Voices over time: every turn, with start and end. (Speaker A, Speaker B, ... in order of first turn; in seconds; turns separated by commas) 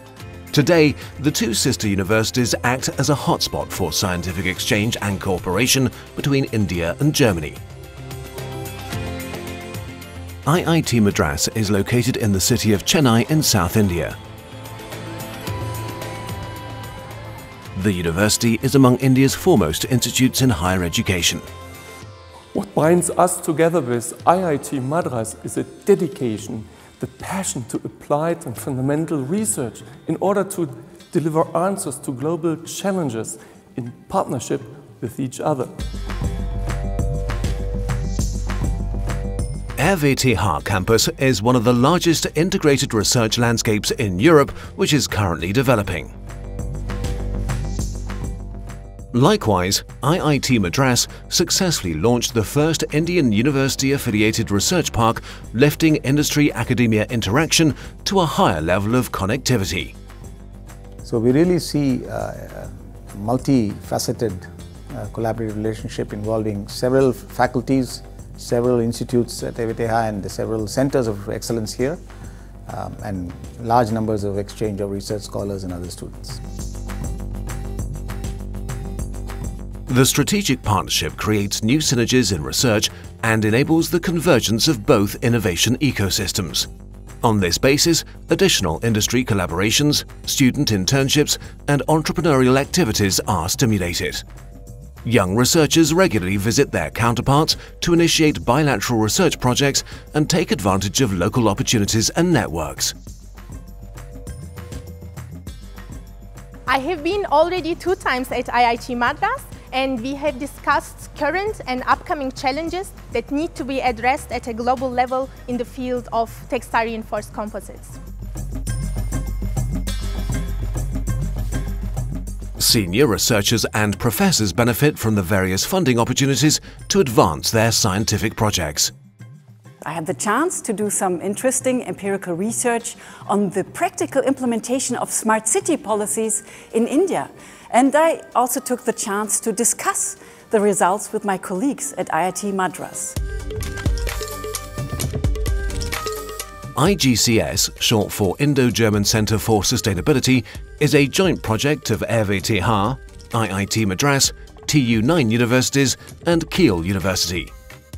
Speaker A: 0.5-7.6, Speaker A: 10.5-14.2, Speaker A: 17.8-21.4, Speaker B: 22.5-35.8, Speaker A: 39.8-46.1, Speaker A: 49.1-59.9, Speaker C: 61.0-72.0, Speaker C: 72.7-76.4, Speaker A: 79.9-86.7, Speaker A: 87.2-94.2, Speaker A: 95.0-103.0, Speaker D: 106.7-118.0, Speaker A: 122.6-128.9, Speaker E: 129.8-143.1, Speaker A: 146.8-157.5